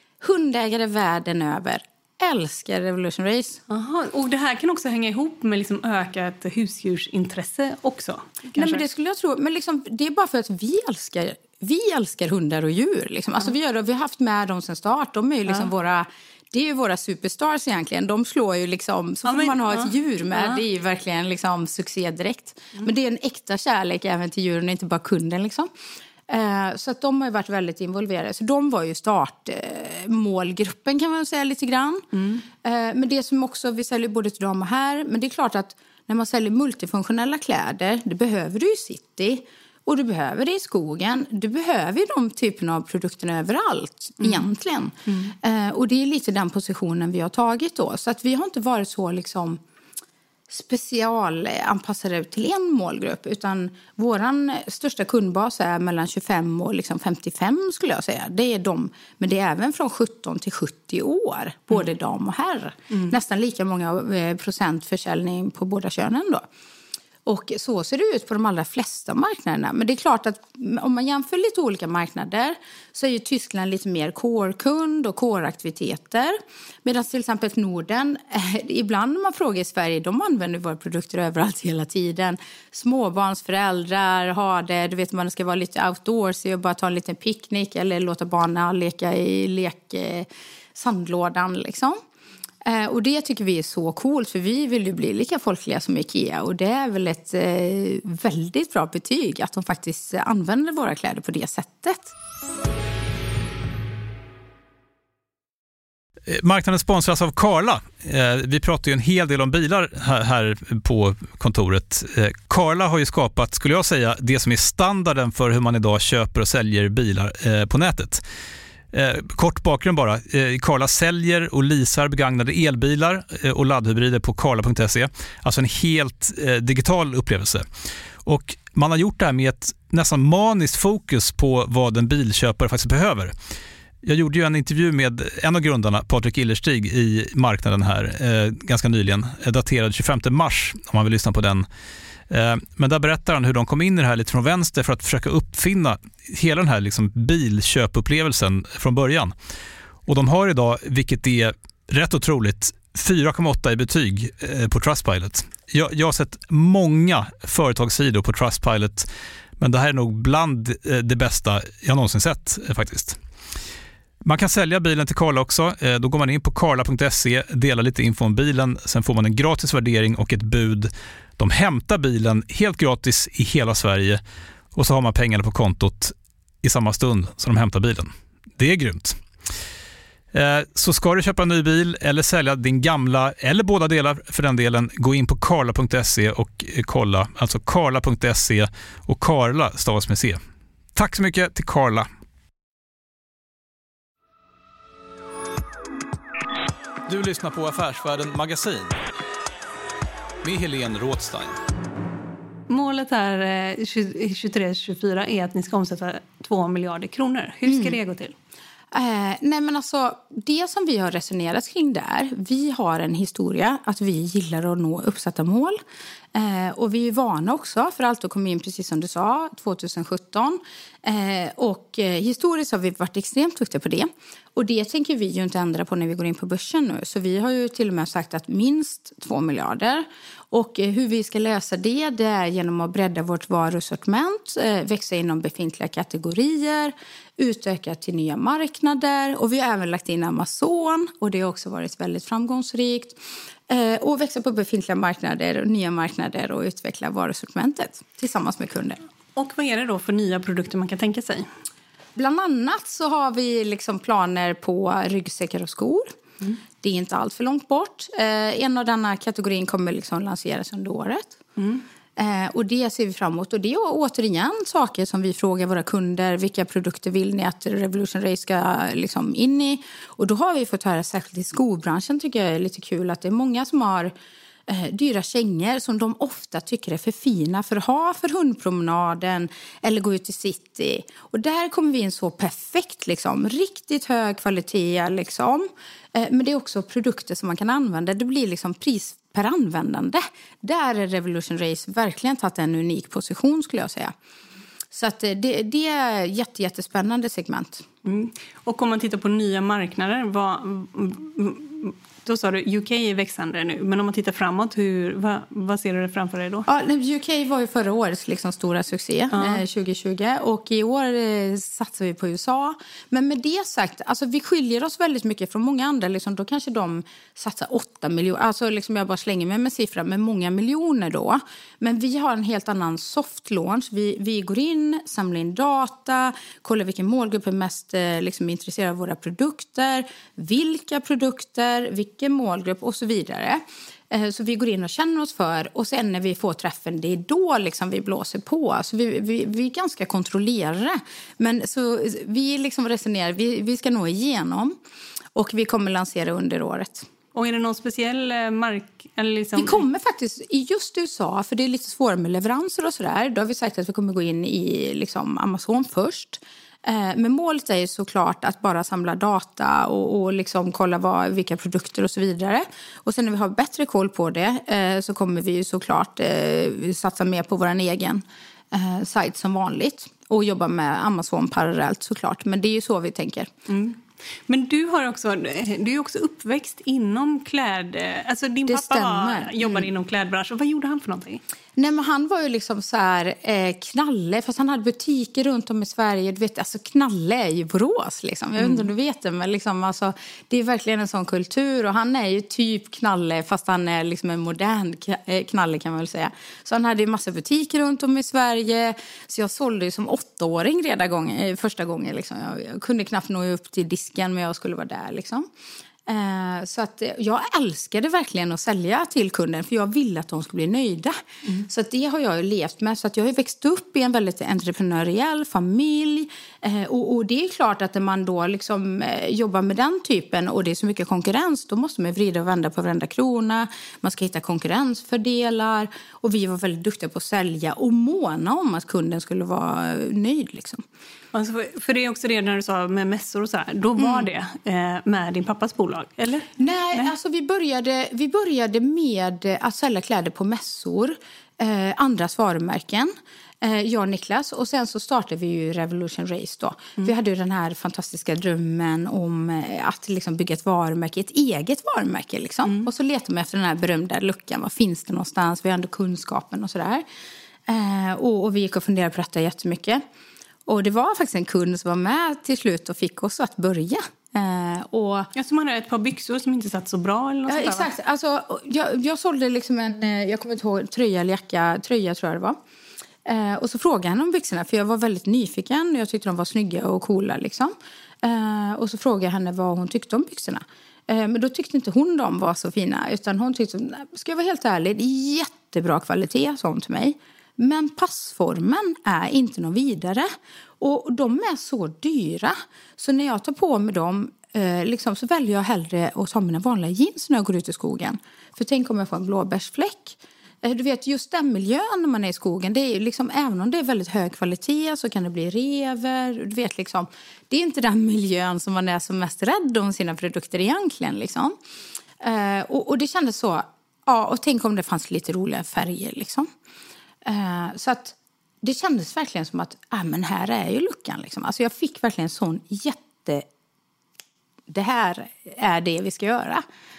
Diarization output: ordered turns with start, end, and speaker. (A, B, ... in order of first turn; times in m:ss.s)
0:00.2-0:03.6 A
0:03.7-0:08.8 B
0:08.6-0:25.7 A
0:19.2-0:20.6 B
0:26.3-0:32.0 A
0:32.1-0:32.4 B
0:32.6-0:49.6 A
0:44.2-0:44.5 B
0:45.1-0:45.3 B
0:50.5-1:06.4 A
1:07.2-1:32.0 A
1:32.6-1:42.1 A
1:46.3-1:58.2 C
1:58.9-2:07.6 C
2:08.2-2:13.3 C
2:14.0-2:21.7 C
2:22.3-2:29.3 C
2:30.1-2:39.1 C
2:39.6-2:43.2 C
2:44.2-2:54.2 C
2:54.7-2:59.2 C
3:00.3-3:10.4 C
3:11.0-3:12.1 C
3:17.1-3:19.0 C
3:20.4-3:21.6 C
3:22.7-3:28.3 B
3:27.6-3:28.0 A
3:28.9-3:35.8 A
3:36.3-4:03.2 A
4:03.7-4:09.0 A
4:09.4-4:11.5 B
4:12.2-4:16.1 A
4:16.8-4:21.4 A
4:21.6-4:21.8 B
4:22.2-4:34.1 A
4:34.7-4:54.1 A
4:54.9-4:57.8 A
4:58.0-5:06.7 B
5:06.7-5:44.8 A
5:09.3-5:09.6 B
5:45.3-5:47.1 A
5:47.3-5:49.8 B
5:49.6-6:13.5 A
6:13.7-6:14.0 B
6:14.5-6:21.4 B
6:18.7-6:19.9 A
6:21.8-6:45.5 A
6:28.6-6:28.8 B
6:46.1-7:10.8 A
7:11.3-7:17.1 B
7:14.0-7:14.3 A
7:16.6-7:37.0 A
7:37.7-7:40.0 A
7:40.7-7:45.3 A
7:45.3-7:47.9 B
7:47.5-7:52.6 A
7:53.2-8:10.3 A
8:10.8-8:31.5 A
8:32.2-8:36.5 A
8:37.2-8:43.4 A
8:44.7-8:46.6 A